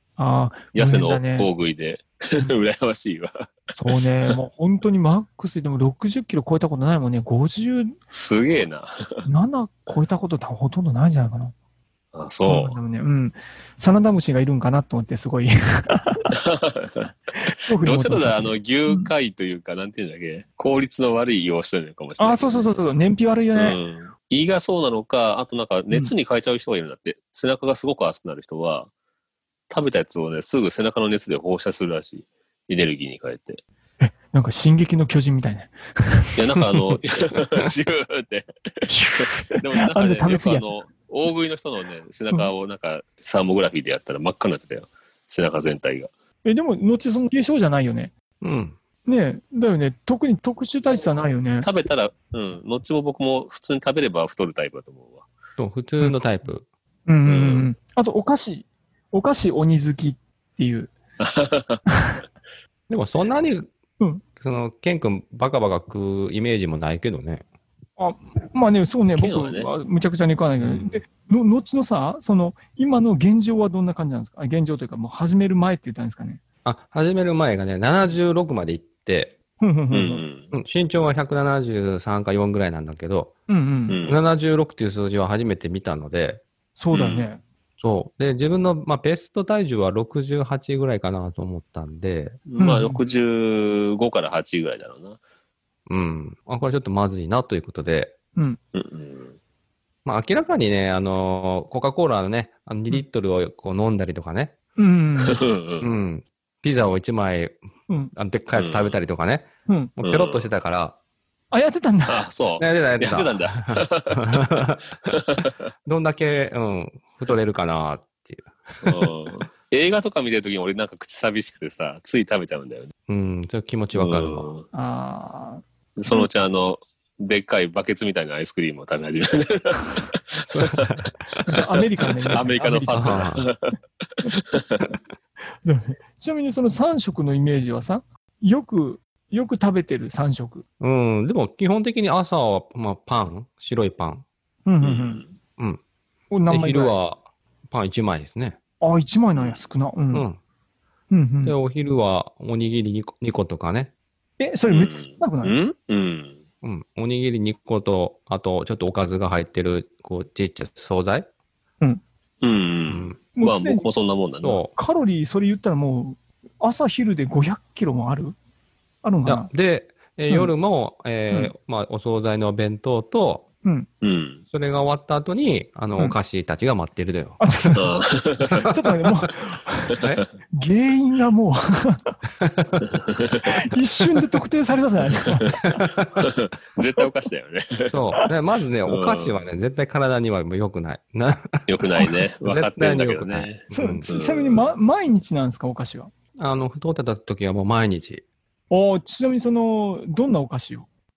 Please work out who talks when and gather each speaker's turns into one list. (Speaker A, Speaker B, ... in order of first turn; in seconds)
Speaker A: 0.2-1.5, 3.8-8.0, 9.3-11.5, 12.5-16.3, 17.3-19.1, 22.2-23.8, 34.0-36.4, 38.9-40.7, 46.5-48.1, 49.1-51.7, 57.1-60.9, 68.0-76.4, 79.6-80.2, 83.5-84.0, 86.8-87.4, 92.6-93.0, 104.8-105.4, 107.9-108.1, 111.5-112.2, 124.7-126.3, 131.4-133.4, 135.6-140.6, 144.7-145.2, 146.3-147.0, 148.8-150.3, 151.1-151.6, 154.4-155.6, 163.4-163.9, 164.8-168.3, 169.0-169.5, 177.4-178.0, 178.6-180.0, 180.5-182.2, 183.4-185.8, 193.7-196.1, 198.7-200.9
Speaker B: 0.8-4.3, 8.1-9.3, 12.1-12.8, 16.4-17.1, 17.7-22.8, 23.6-28.9, 29.7-33.6, 36.4-46.1, 51.6-55.3, 57.3-57.7, 61.2-61.8, 69.2-69.7, 79.9-80.5, 83.9-84.2, 86.9-87.3, 92.5-95.2, 98.7-99.4, 105.2-105.9, 108.5-109.0, 110.0-110.5, 112.1-114.2, 115.1-115.5, 118.8-122.9, 124.0-124.7, 126.0-130.9, 132.3-134.9, 144.8-145.3, 154.7-156.4, 162.4-164.6, 174.0-174.4, 177.8-178.7, 182.8-183.5, 186.2-188.0, 188.9-189.4, 191.7-194.7
Speaker C: 48.4-48.8, 55.6-56.6, 62.9-63.7, 64.4-67.4, 76.7-79.3, 80.5-83.3, 84.1-86.4, 87.8-92.4, 95.9-98.2, 100.0-104.5, 105.8-107.6, 108.1-109.5, 110.0-111.0, 112.6-114.8, 115.8-119.0, 123.1-124.5, 130.5-131.4, 132.9-133.4, 140.8-144.2, 146.5-148.6, 150.1-150.4, 151.4-153.9, 156.6-161.3, 162.9-163.2, 164.4-164.7, 169.2-173.4, 174.5-177.4, 182.4-182.8, 187.9-194.1, 196.4-198.2